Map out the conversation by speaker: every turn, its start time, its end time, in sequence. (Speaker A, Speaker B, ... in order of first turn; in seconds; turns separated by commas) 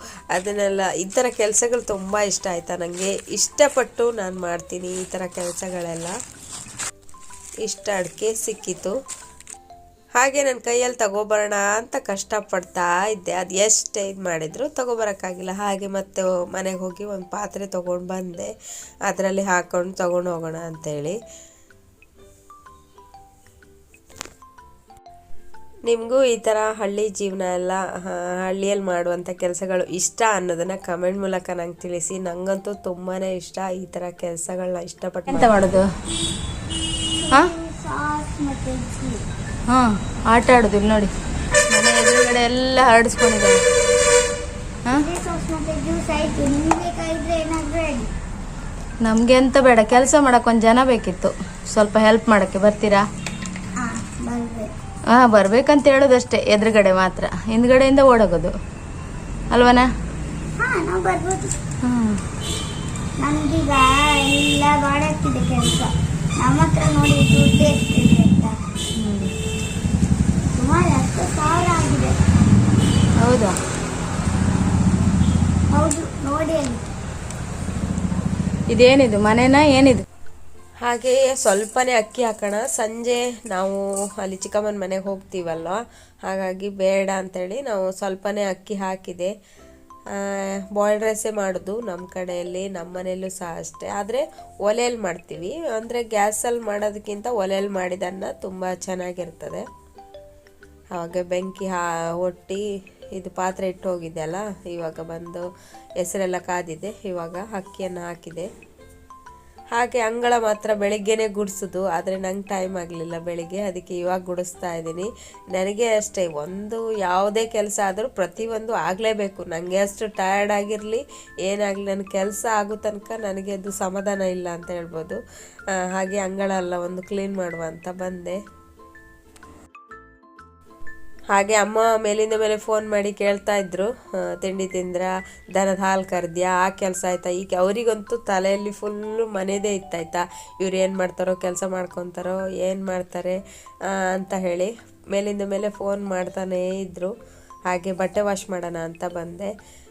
Speaker A: 0.3-6.2, Speaker A: 7.6-8.9, Speaker A: 10.2-18.5, Speaker A: 19.1-21.2, Speaker A: 25.9-35.7, Speaker B: 35.3-35.9, Speaker C: 37.2-39.2, Speaker B: 39.7-41.1, Speaker B: 41.7-43.6, Speaker C: 44.9-48.1, Speaker B: 49.0-53.0, Speaker C: 53.8-54.7, Speaker B: 55.1-58.5, Speaker B: 59.5-59.9, Speaker C: 60.6-61.5, Speaker B: 61.8-62.2, Speaker C: 63.2-68.5, Speaker B: 69.0-69.3, Speaker C: 70.6-72.2, Speaker B: 73.2-73.5, Speaker C: 75.7-76.8, Speaker B: 78.7-80.0, Speaker A: 80.8-89.3, Speaker A: 90.1-99.6, Speaker A: 100.9-102.6, Speaker A: 103.1-105.5, Speaker A: 106.0-108.5, Speaker A: 109.8-125.2, Speaker A: 125.8-128.4, Speaker A: 131.3-147.1, Speaker A: 147.7-149.5